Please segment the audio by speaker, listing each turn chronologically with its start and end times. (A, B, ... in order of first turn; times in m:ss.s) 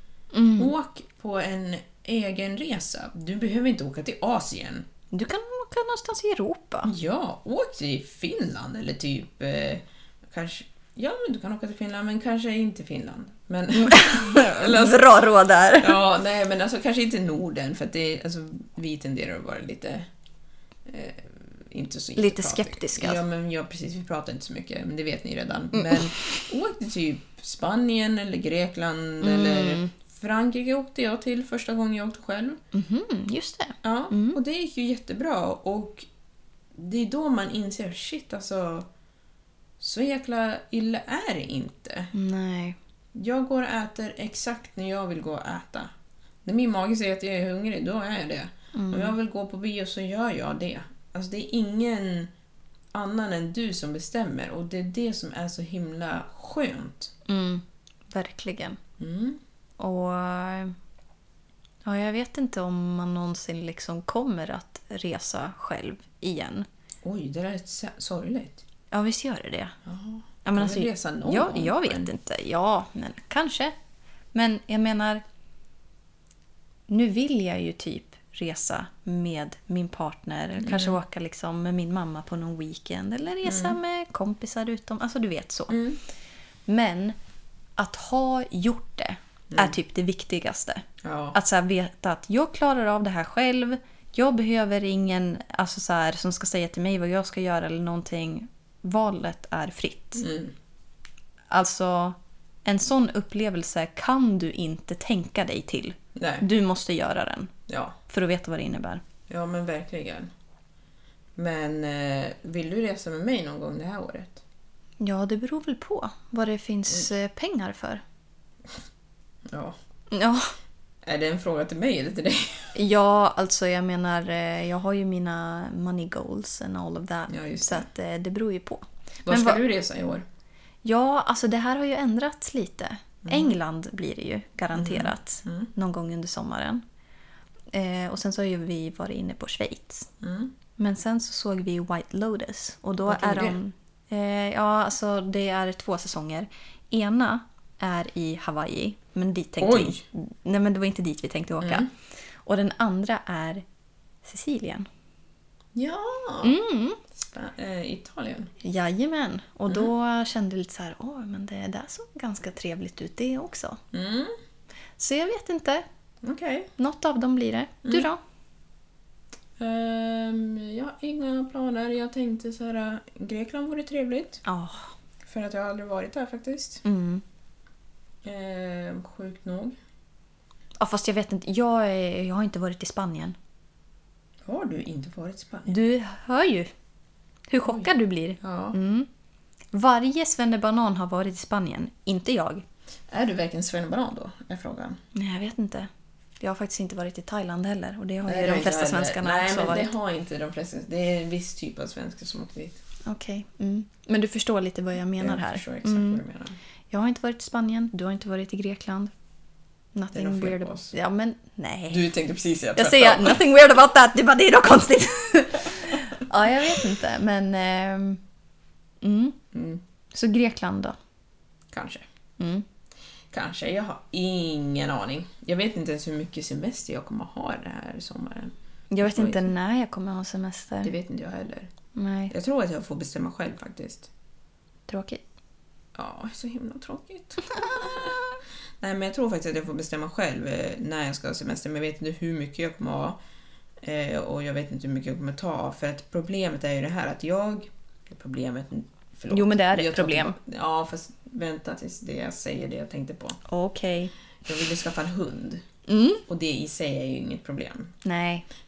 0:00.3-0:00.7 A
0:00.6-0:04.8 B
0:05.1-0:06.9 A
0:06.8-0:15.2 B
0:13.8-0:16.0 A
0:15.8-0:20.1 B
0:20.8-0:32.6 B
0:22.2-0:23.2 A
0:25.7-0:26.2 A
0:29.2-0:29.9 A
0:32.7-0:34.4 A
0:33.8-0:36.0 B
0:36.7-0:38.9 B
0:39.8-0:42.1 B
0:42.1-0:42.8 A
0:43.1-0:45.9 B
0:46.4-0:52.3 B
0:48.7-0:49.1 A
0:52.9-0:57.1 B
0:57.3-0:58.8 A
0:59.0-0:59.4 B
0:59.8-1:00.7 A
1:01.8-1:06.7 A
1:07.0-1:08.6 B
1:08.9-1:09.7 A
1:09.8-1:12.1 B
1:10.4-1:13.7 A
1:14.3-1:15.2 A
1:16.9-1:25.7 A
1:20.6-1:21.0 B
1:23.4-1:23.8 B
1:25.7-1:26.0 B
1:26.7-1:27.2 A
1:27.8-1:40.2 A
1:29.5-1:29.8 B
1:31.0-1:31.4 B
1:40.2-1:40.5 B
1:41.5-1:47.5 A
1:46.1-1:46.4 B
1:47.7-1:48.0 B
1:48.1-1:49.0 A
1:49.3-1:50.3 B
1:51.4-1:54.4 B
1:55.0-1:58.0 A
1:59.5-1:59.8 B
2:00.1-2:00.5 A
2:01.0-2:02.7 B
2:02.7-2:09.6 A
2:07.3-2:07.9 B
2:09.2-2:10.2 B
2:10.8-2:16.8 A
2:13.2-2:13.6 B
2:14.7-2:15.7 B
2:17.7-2:20.1 A
2:20.2-2:20.5 B
2:20.8-2:31.9 A
2:23.0-2:23.6 B
2:29.6-2:30.0 B
2:31.6-2:31.9 B
2:32.4-2:33.6 A
2:34.2-2:34.9 A
2:35.7-2:36.6 B
2:36.4-2:37.0 A
2:37.1-2:38.5 B
2:38.6-2:43.8 A
2:43.9-2:44.4 B
2:45.0-2:45.8 A
2:46.2-2:46.7 B
2:46.8-2:48.2 A
2:49.6-2:54.4 B
2:54.4-2:54.9 A
2:55.2-2:56.8 B
2:56.8-2:57.2 A
2:58.2-2:59.8 B
3:00.8-3:03.4 A
3:04.4-3:05.8 B
3:05.7-3:06.7 A
3:07.5-3:09.1 A
3:07.6-3:08.8 B
3:09.7-3:12.6 A
3:13.1-3:15.0 B
3:15.1-3:15.9 A
3:16.4-3:19.9 A
3:18.2-3:22.8 B
3:23.0-3:26.2 A
3:25.2-3:26.6 B
3:26.9-3:29.1 A
3:29.9-3:32.1 A
3:30.1-3:30.9 B
3:31.9-3:33.4 B
3:32.7-3:38.2 A
3:39.0-3:39.4 A
3:39.5-3:39.8 B
3:40.1-3:41.0 A
3:41.7-3:42.0 B
3:42.4-3:42.6 A
3:43.3-3:49.5 B
3:48.9-3:50.9 A
3:50.8-3:51.7 B
3:51.9-3:52.3 A
3:52.3-3:54.1 B
3:54.9-3:55.2 A
3:55.9-3:58.3 B
3:58.8-4:03.2 B
4:03.8-4:13.4 B
4:09.3-4:10.4 A
4:13.5-4:14.1 A
4:14.4-4:15.6 B
4:15.9-4:16.2 A
4:16.2-4:17.9 B
4:18.0-4:18.4 A